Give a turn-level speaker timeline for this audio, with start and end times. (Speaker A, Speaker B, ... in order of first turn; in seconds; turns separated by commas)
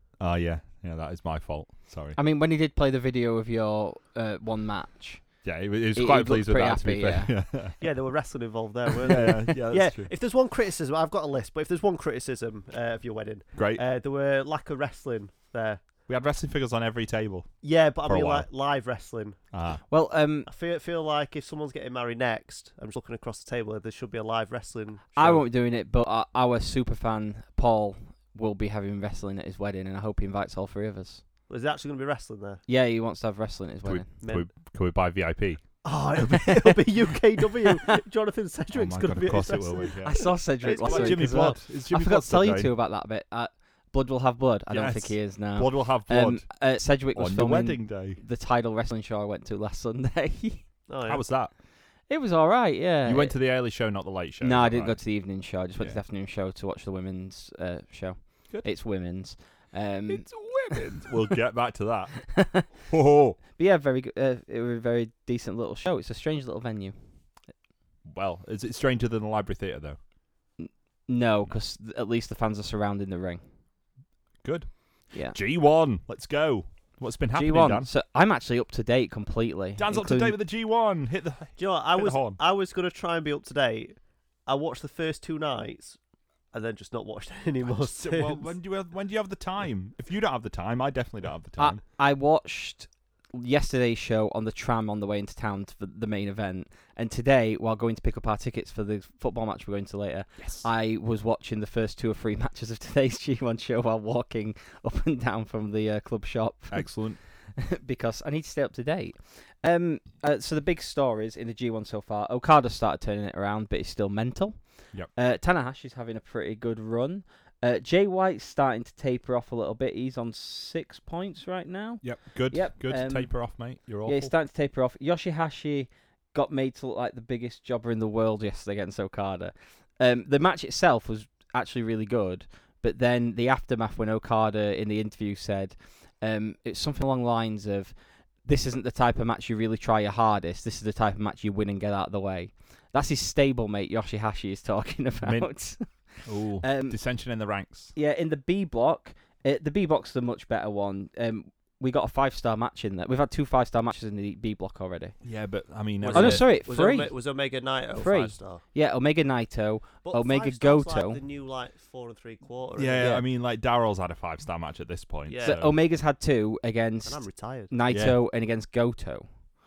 Speaker A: 0.2-2.2, Speaker B: 2.1-7.4, Speaker A: 5.4-7.8, Speaker C: 7.8-16.0, Speaker A: 9.1-10.1, Speaker A: 13.5-13.8, Speaker A: 16.1-18.5, Speaker C: 17.6-19.4, Speaker A: 19.5-19.8, Speaker B: 19.9-20.5, Speaker C: 20.5-25.4, Speaker B: 25.1-31.2, Speaker C: 31.5-32.6, Speaker B: 32.7-34.1, Speaker A: 33.8-35.6, Speaker C: 34.2-34.5, Speaker C: 35.8-41.6, Speaker A: 38.7-42.7, Speaker B: 40.0-50.7, Speaker A: 44.7-46.5, Speaker A: 47.1-48.2, Speaker C: 50.9-51.2, Speaker A: 51.0-51.5, Speaker B: 52.1-53.4, Speaker A: 53.0-55.0, Speaker B: 54.4-60.7, Speaker A: 60.1-63.4, Speaker B: 62.3-62.7, Speaker B: 63.5-67.0, Speaker A: 68.0-70.0, Speaker B: 70.6-73.4, Speaker A: 74.4-77.9, Speaker B: 75.1-75.4, Speaker B: 77.3-80.4, Speaker A: 79.8-82.4, Speaker C: 81.6-86.0, Speaker C: 86.5-88.5, Speaker A: 87.6-91.8, Speaker B: 91.6-146.1, Speaker A: 100.4-100.7, Speaker A: 106.7-107.2, Speaker A: 122.0-124.3, Speaker A: 145.2-145.6, Speaker A: 146.2-147.9, Speaker B: 146.6-147.0, Speaker B: 147.9-155.1, Speaker A: 155.2-156.4, Speaker C: 156.0-158.6, Speaker B: 156.1-157.2, Speaker B: 157.9-161.2, Speaker C: 160.0-163.1, Speaker A: 162.8-165.7, Speaker C: 165.3-165.6, Speaker B: 165.4-169.3, Speaker C: 167.0-167.7, Speaker A: 167.9-168.2